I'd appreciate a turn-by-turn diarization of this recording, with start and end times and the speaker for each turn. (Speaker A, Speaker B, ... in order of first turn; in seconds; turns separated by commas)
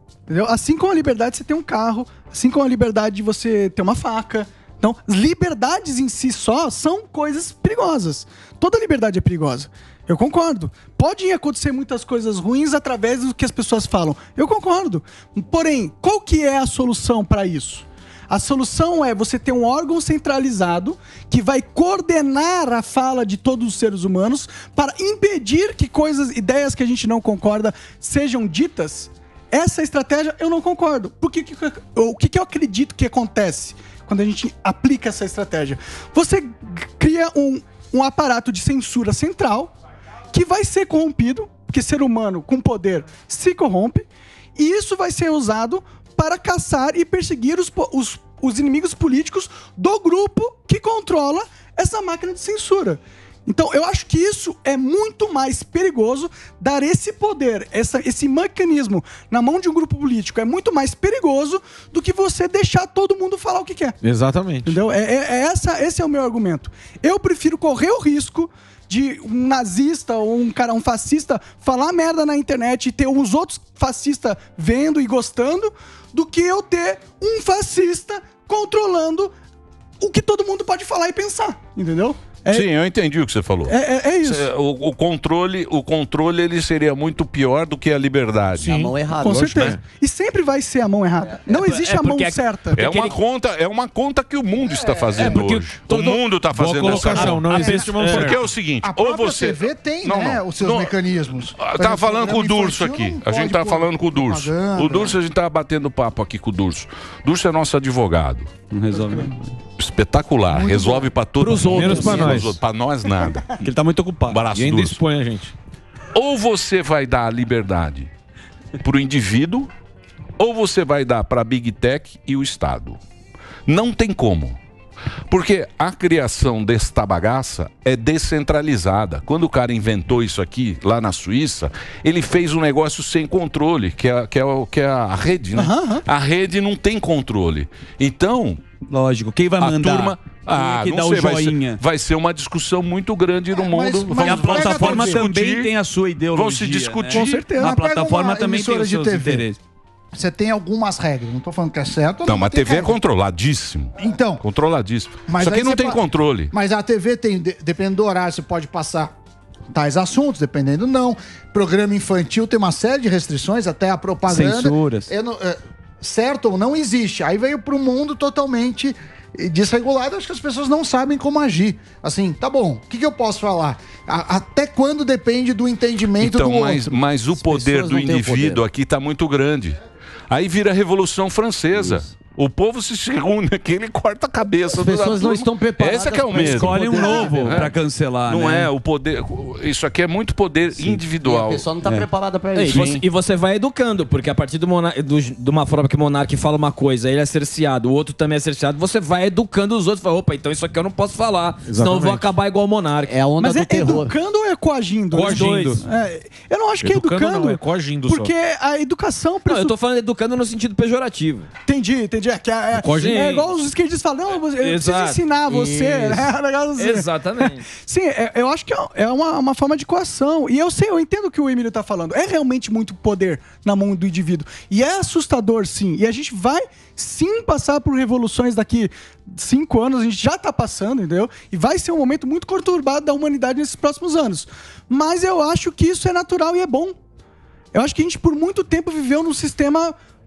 Speaker A: 0.3-39.7, Speaker A: 40.3-64.0, Speaker B: 64.0-64.8, Speaker A: 64.6-79.3, Speaker A: 80.0-82.7, Speaker C: 82.5-88.8, Speaker A: 83.7-84.5, Speaker B: 88.5-89.8, Speaker D: 88.6-89.7, Speaker A: 89.2-92.8, Speaker C: 89.5-89.8, Speaker E: 91.5-93.2, Speaker C: 92.7-100.9, Speaker F: 94.7-95.3, Speaker B: 95.2-98.6, Speaker E: 95.2-96.2, Speaker E: 96.8-98.4, Speaker F: 98.8-105.2, Speaker C: 101.6-108.5, Speaker G: 108.7-109.6, Speaker C: 109.7-113.7, Speaker F: 110.5-111.1, Speaker E: 111.4-112.5, Speaker B: 111.6-112.6, Speaker G: 113.6-114.4, Speaker C: 114.3-115.0, Speaker B: 114.5-115.5, Speaker C: 116.1-118.1, Speaker C: 118.8-119.7, Speaker C: 120.4-123.0, Speaker C: 123.7-124.6, Speaker C: 125.3-138.6, Speaker A: 135.6-136.0, Speaker G: 138.9-141.8, Speaker C: 139.6-145.7, Speaker F: 143.5-145.2, Speaker G: 144.2-149.6, Speaker C: 146.3-147.5, Speaker A: 147.1-147.8, Speaker F: 147.6-149.5, Speaker F: 150.1-153.0, Speaker C: 152.3-156.5, Speaker F: 154.0-154.4, Speaker F: 155.2-156.0, Speaker F: 156.5-159.1, Speaker F: 159.7-176.9, Speaker G: 164.3-165.1, Speaker C: 176.2-191.7, Speaker D: 177.3-178.6, Speaker D: 184.7-187.7, Speaker G: 186.3-188.7, Speaker D: 190.8-193.0, Speaker E: 192.5-203.2, Speaker C: 192.7-193.0, Speaker B: 201.7-202.3, Speaker D: 203.0-204.1, Speaker A: 203.4-209.7, Speaker B: 205.1-205.8, Speaker E: 205.2-205.8, Speaker B: 206.8-208.3, Speaker E: 209.4-211.5, Speaker A: 211.7-236.9, Speaker B: 212.7-213.2, Speaker E: 212.8-213.5, Speaker E: 214.5-217.6, Speaker A: 237.7-239.9